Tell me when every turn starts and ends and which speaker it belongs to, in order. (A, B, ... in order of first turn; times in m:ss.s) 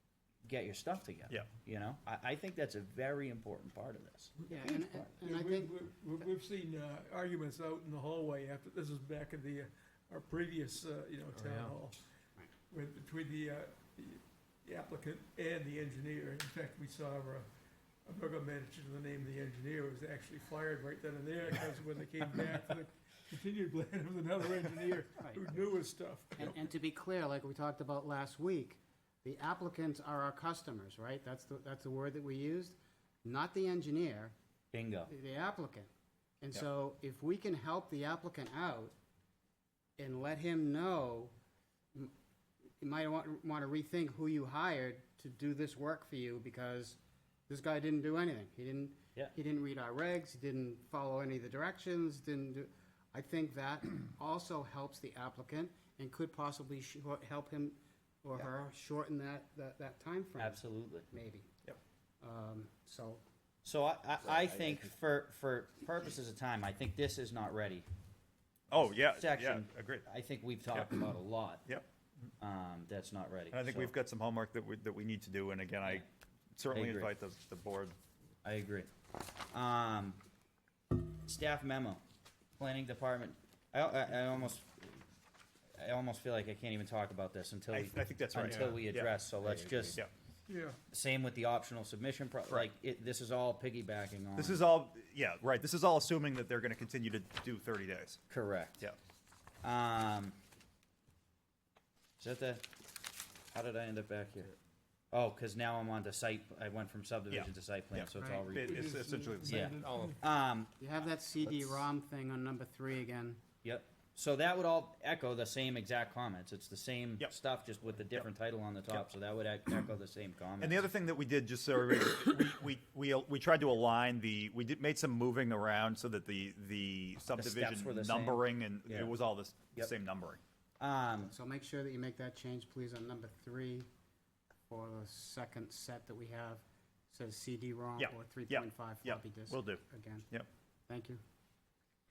0:00.5-0:05.1 A
0:04.5-0:05.8 B
0:05.2-0:12.0 C
0:12.7-0:17.5 C
0:18.0-0:26.6 C
0:25.2-0:25.6 B
0:26.4-0:34.3 B
0:34.7-0:35.1 A
0:35.1-0:35.9 B
0:36.4-0:38.9 B
0:40.0-0:41.3 B
0:42.8-0:47.0 B
0:47.5-1:01.5 B
1:00.4-1:01.1 A
1:02.2-1:03.2 B
1:03.6-1:07.9 A
1:08.7-1:10.1 D
1:09.1-1:11.6 A
1:12.4-1:13.9 A
1:13.5-1:16.0 D
1:16.6-1:18.0 D
1:16.7-1:17.1 A
1:18.4-1:18.9 A
1:19.5-1:20.2 A
1:21.0-1:22.0 A
1:22.6-1:25.0 A
1:25.8-1:30.0 A
1:27.7-1:29.1 D
1:30.5-1:30.8 C
1:30.9-1:34.6 A
1:34.4-1:38.2 D
1:38.3-1:38.9 A
1:39.6-1:40.4 A
1:42.2-1:42.6 A
1:43.5-1:44.5 A
1:45.1-1:48.9 A
1:47.3-1:49.8 D
1:48.2-1:48.5 B
1:48.6-1:50.2 C
1:49.4-1:50.7 A
1:50.8-1:53.4 B
1:53.6-2:00.9 A
2:00.6-2:10.4 D
2:07.4-2:09.1 A
2:10.8-2:11.3 A
2:11.3-2:13.9 B
2:14.7-2:20.3 B
2:18.0-2:20.5 D
2:20.9-2:21.2 B